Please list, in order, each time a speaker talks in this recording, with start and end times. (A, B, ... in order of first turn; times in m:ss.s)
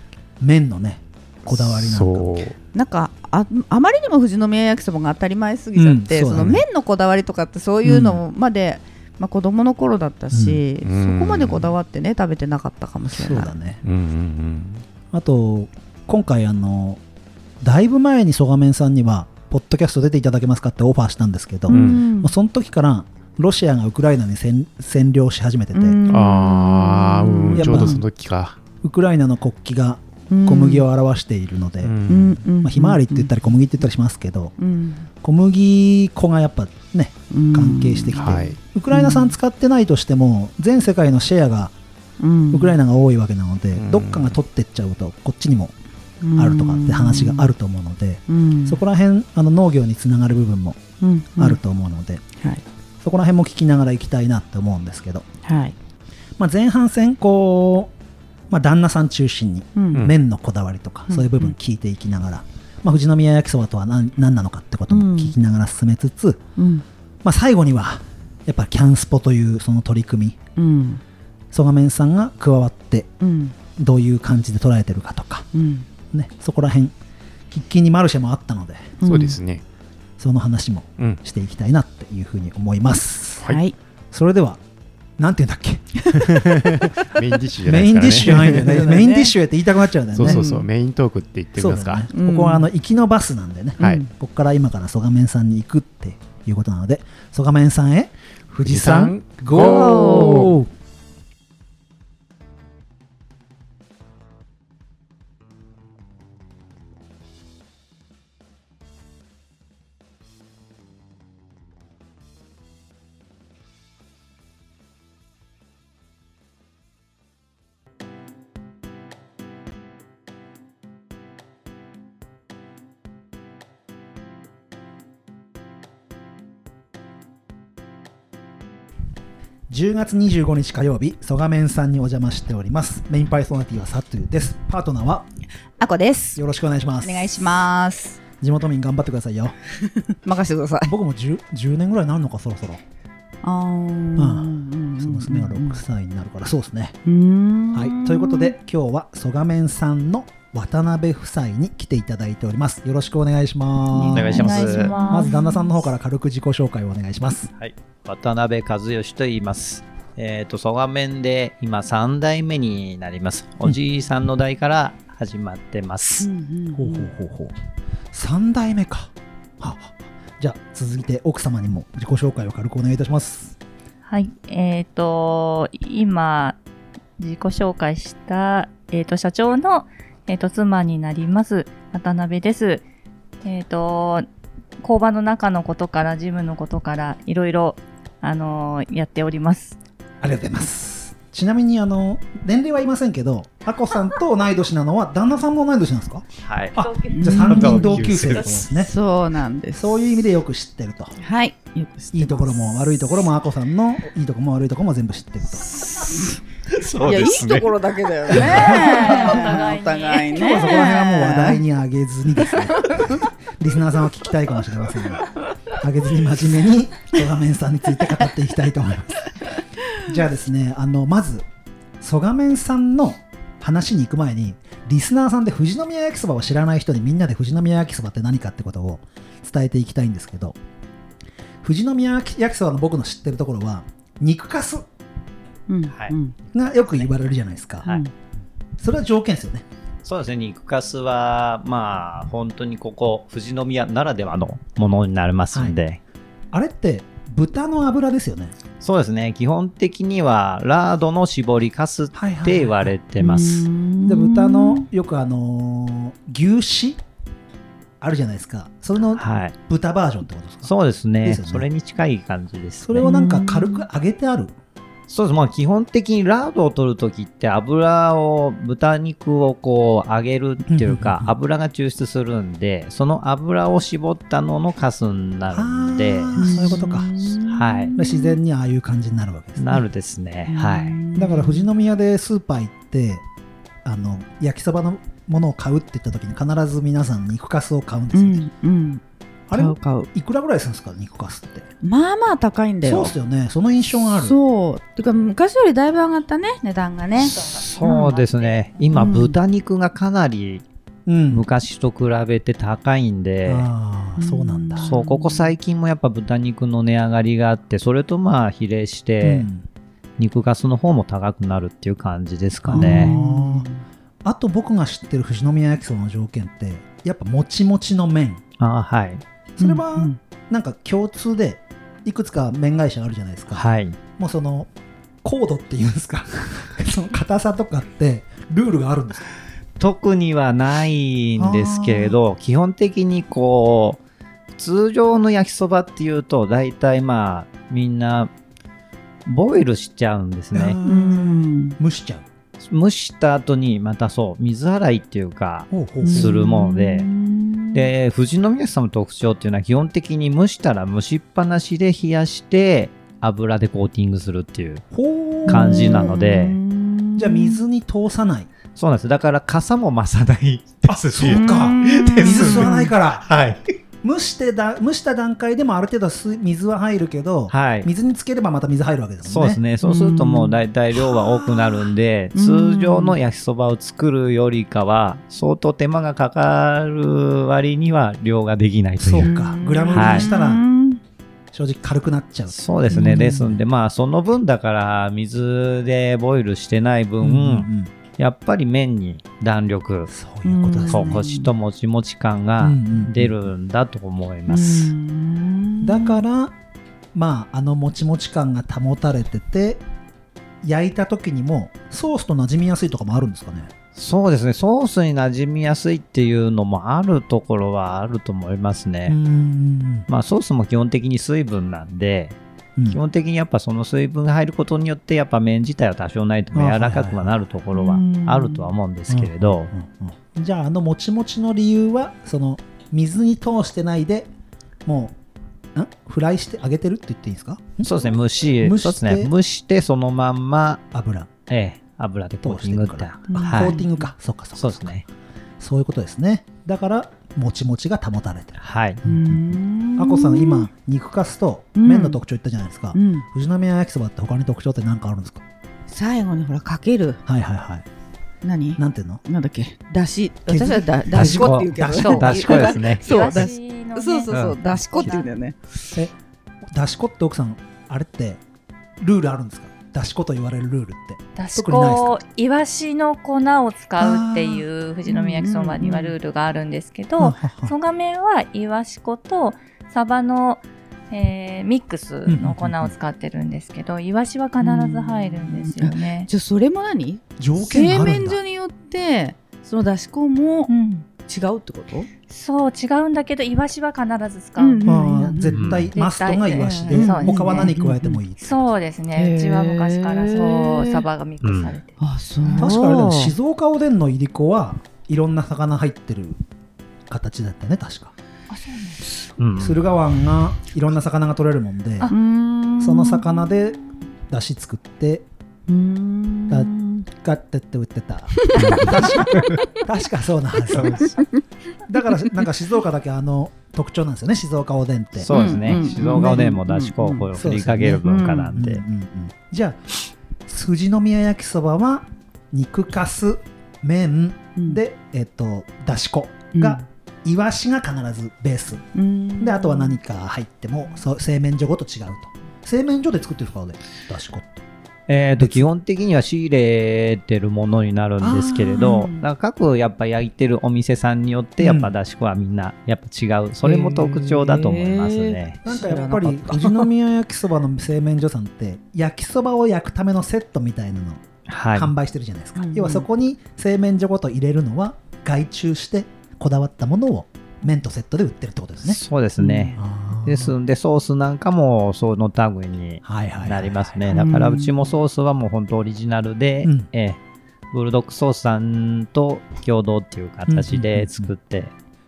0:00.4-0:02.4 A
0:01.4-0:02.6 B
0:02.7-0:13.5 C
0:05.7-0:06.6 A
0:07.8-0:08.2 A
0:10.3-0:10.6 A
0:10.8-0:11.7 B
0:13.1-0:13.8 A
0:13.8-0:14.8 B
0:15.1-0:17.0 A
0:17.6-0:26.0 A
0:21.7-0:22.3 C
0:21.7-0:22.0 B
0:25.7-0:28.0 C
0:26.1-0:28.6 B
0:27.5-0:28.0 A
0:28.8-0:32.0 A
0:30.3-0:30.8 C
0:31.8-0:32.4 B
0:32.1-0:33.3 C
0:32.6-0:34.6 A
0:34.6-0:35.1 C
0:35.2-0:41.7 A
0:37.3-0:39.4 C
0:38.2-0:38.6 B
0:42.2-0:42.8 C
0:42.5-0:45.7 A
0:43.7-0:44.4 B
0:46.2-0:47.5 C
0:46.4-0:50.8 A
0:48.3-0:48.8 C
0:51.0-0:51.6 C
0:51.4-0:52.2 A
0:53.0-0:55.2 A
0:55.4-0:55.7 C
0:56.4-0:57.9 A
0:58.5-1:06.4 A
0:59.8-1:00.1 C
1:01.1-1:01.5 C
1:04.9-1:05.3 C
1:06.6-1:06.8 C
1:07.2-1:10.4 A
1:10.6-1:11.0 C
1:11.5-1:13.1 A
1:13.2-1:13.5 C
1:13.8-1:15.5 A
1:15.5-1:15.8 C
1:16.1-1:16.9 A
1:17.5-1:19.0 A
1:19.0-1:19.4 C
1:19.0-1:19.6 B
1:20.2-1:23.5 A
1:23.4-1:23.8 C
1:24.1-1:24.6 A
1:25.2-1:26.3 A
1:26.1-1:28.9 B
1:27.6-1:30.4 A
1:28.2-1:29.3 C
1:30.1-1:32.0 B
1:30.2-1:30.7 C
1:31.6-1:40.7 A
1:32.1-1:32.7 C
1:33.8-1:34.1 C
1:38.6-1:40.6 B
1:39.5-1:40.6 C
2:09.7-2:15.2 A
2:15.8-2:16.4 C
2:16.4-2:17.3 A
2:17.0-2:18.2 C
2:18.4-2:19.5 A
2:20.1-2:20.9 C
2:20.8-2:22.8 A
2:23.4-2:25.8 C
2:24.2-2:27.0 A
2:27.0-2:28.6 C
2:27.7-2:37.5 A
2:33.9-2:35.7 C
2:34.1-2:35.4 D
2:34.1-2:34.9 E
2:37.6-2:46.3 E
2:46.2-2:47.1 C
2:46.7-2:47.5 A
2:48.1-2:53.6 A
2:54.0-2:56.6 D
2:57.2-3:02.8 D
3:03.4-3:04.3 D
3:04.8-3:09.8 D
3:10.2-3:18.9 A
3:16.4-3:18.6 E
3:17.1-3:18.0 C
3:18.6-3:20.2 C
3:19.7-3:21.2 A
3:21.2-3:23.1 C
3:22.1-3:25.7 A
3:25.7-3:27.7 E
3:26.0-3:26.4 C
3:27.0-3:31.6 C
3:28.3-3:28.6 E
3:28.3-3:29.1 A
3:28.6-3:30.8 D
3:30.3-3:39.3 A
3:32.8-3:33.2 C
3:40.0-3:41.4 A
3:42.0-3:50.6 A
3:51.6-3:54.8 A
3:55.7-3:56.3 C
3:56.5-3:57.8 A
3:57.8-3:58.1 C
3:58.8-3:59.6 A
4:00.0-4:06.0 E
4:05.5-4:05.8 A
4:06.5-4:08.5 A
4:08.8-4:13.7 E
4:12.1-4:12.9 A
4:13.2-4:14.9 C
4:14.0-4:17.0 A
4:18.0-4:20.7 A
4:19.2-4:19.5 E
4:20.6-4:23.1 E
4:21.2-4:21.7 A
4:22.8-4:24.5 A
4:23.0-4:23.8 C
4:25.1-4:36.8 E
4:30.7-4:31.3 A
4:35.5-4:37.4 A
4:36.4-4:38.4 C
4:37.4-4:37.9 E
4:37.9-4:39.8 A
4:39.6-4:41.0 E
4:40.5-4:41.7 C
4:41.1-4:43.2 A
4:43.8-4:48.4 A
4:48.1-4:50.1 C
4:49.5-4:51.7 A
4:51.8-4:53.1 C
4:52.8-4:54.4 A
4:54.1-4:58.1 C
4:57.2-5:00.6 E
4:57.2-4:59.1 D
4:58.9-4:59.4 C
5:01.0-5:01.5 A
5:01.3-5:03.7 E
5:03.4-5:04.9 A
5:04.2-5:05.5 C
5:04.8-5:09.5 E
5:09.2-5:09.6 A
5:10.2-5:13.1 E
5:12.6-5:13.7 A
5:12.7-5:13.8 C
5:14.2-5:18.4 A
5:18.6-5:19.2 E
5:19.6-5:23.6 A
5:19.6-5:20.2 C
5:23.5-5:24.0 E
5:24.2-5:24.7 A
5:25.2-5:29.3 A
5:29.8-5:34.0 E
5:31.4-5:32.2 A
5:34.6-5:38.3 E
5:39.2-5:40.8 E
5:40.5-5:42.2 A
5:40.8-5:41.8 C
5:42.6-5:47.1 E
5:45.7-5:46.4 A
5:46.0-5:47.9 C
5:47.7-5:54.8 E
5:54.9-5:56.1 A
5:55.4-5:57.6 C
5:55.5-5:56.6 E
5:57.2-5:58.5 A
5:58.8-6:03.6 E
6:00.8-6:03.3 A
6:01.2-6:02.9 C
6:04.0-6:09.6 A
6:07.5-6:07.9 E
6:09.2-6:19.3 E
6:09.8-6:10.6 C
6:10.9-6:11.9 A
6:12.3-6:13.2 C
6:19.0-6:20.6 A
6:19.1-6:21.0 C
6:19.9-6:20.3 E
6:21.5-6:23.6 A
6:22.5-6:30.1 E
6:22.9-6:23.5 C
6:27.2-6:27.9 A
6:30.1-6:31.2 A
6:30.4-6:31.5 C
6:30.9-6:34.9 E
6:32.6-6:33.5 A
6:34.5-6:36.2 C
6:35.8-6:36.5 A
6:37.1-6:39.8 A
6:40.6-6:43.7 A
6:43.9-6:49.2 E
6:49.1-6:50.1 A
6:50.1-6:52.4 E
6:52.9-6:59.7 E
6:56.5-6:57.3 A
6:57.7-6:58.7 C
6:59.1-7:04.3 A
7:04.8-7:05.2 A
7:05.7-7:07.9 A
7:07.8-7:10.8 E
7:08.6-7:09.3 A
7:10.9-7:11.3 A
7:11.5-7:13.8 E
7:12.4-7:15.0 A
7:13.3-7:14.1 C
7:14.5-7:15.0 E
7:15.6-7:25.4 A
7:18.6-7:19.0 E
7:19.0-7:20.7 C
7:21.7-7:22.2 C
7:22.9-7:23.2 C
7:25.9-7:27.2 C
7:27.2-7:27.8 A
7:28.4-7:35.6 C
7:28.8-7:29.2 A
7:30.5-7:32.3 A
7:31.1-7:33.5 E
7:31.9-7:35.3 D
7:34.3-7:34.6 E
7:36.7-7:38.4 A
7:39.0-7:42.2 A
7:41.4-7:56.3 D
7:44.0-7:44.6 A
7:45.0-7:46.1 C
7:47.2-7:47.7 A
7:52.2-7:52.9 A
7:54.6-8:02.1 C
7:57.4-7:58.4 A
8:00.7-8:01.0 D
8:02.3-8:05.4 D
8:04.6-8:05.7 C
8:04.8-8:08.7 A
8:05.5-8:05.9 E
8:05.9-8:07.7 D
8:06.9-8:08.2 C
8:08.4-8:12.0 D
8:09.1-8:11.0 C
8:11.4-8:11.8 E
8:12.0-8:13.3 C
8:12.6-8:16.4 A
8:17.1-8:18.1 A
8:18.5-8:19.0 D
8:19.4-8:19.8 E
8:19.6-8:22.1 A
8:22.0-8:23.5 C
8:22.8-8:23.8 A
8:24.3-8:25.2 A
8:25.7-8:27.1 C
8:26.5-8:31.1 A
8:28.4-8:29.8 C
8:28.5-8:29.4 E
8:30.7-8:31.2 E
8:31.0-8:31.4 C
8:31.9-8:36.5 A
8:35.2-8:38.8 E
8:35.3-8:37.3 C
8:37.3-8:39.8 A
8:38.0-8:38.5 C
8:40.5-8:48.9 A
8:44.6-8:44.8 C
8:46.5-8:46.8 C
8:48.9-8:50.0 C
8:49.4-8:54.6 A
8:55.1-9:05.6 E
8:55.4-8:55.7 A
8:58.2-8:59.0 A
8:58.8-8:59.2 C
9:01.6-9:01.9 A
9:03.6-9:06.9 C
9:05.6-9:11.2 A
9:11.5-9:11.9 E
9:11.7-9:19.0 A
9:12.5-9:13.1 C
9:18.8-9:27.2 E
9:19.4-9:19.8 C
9:19.8-9:20.6 A
9:23.0-9:24.0 A
9:24.1-9:24.8 C
9:26.6-9:26.9 A
9:27.7-9:31.7 E
9:30.5-9:31.3 A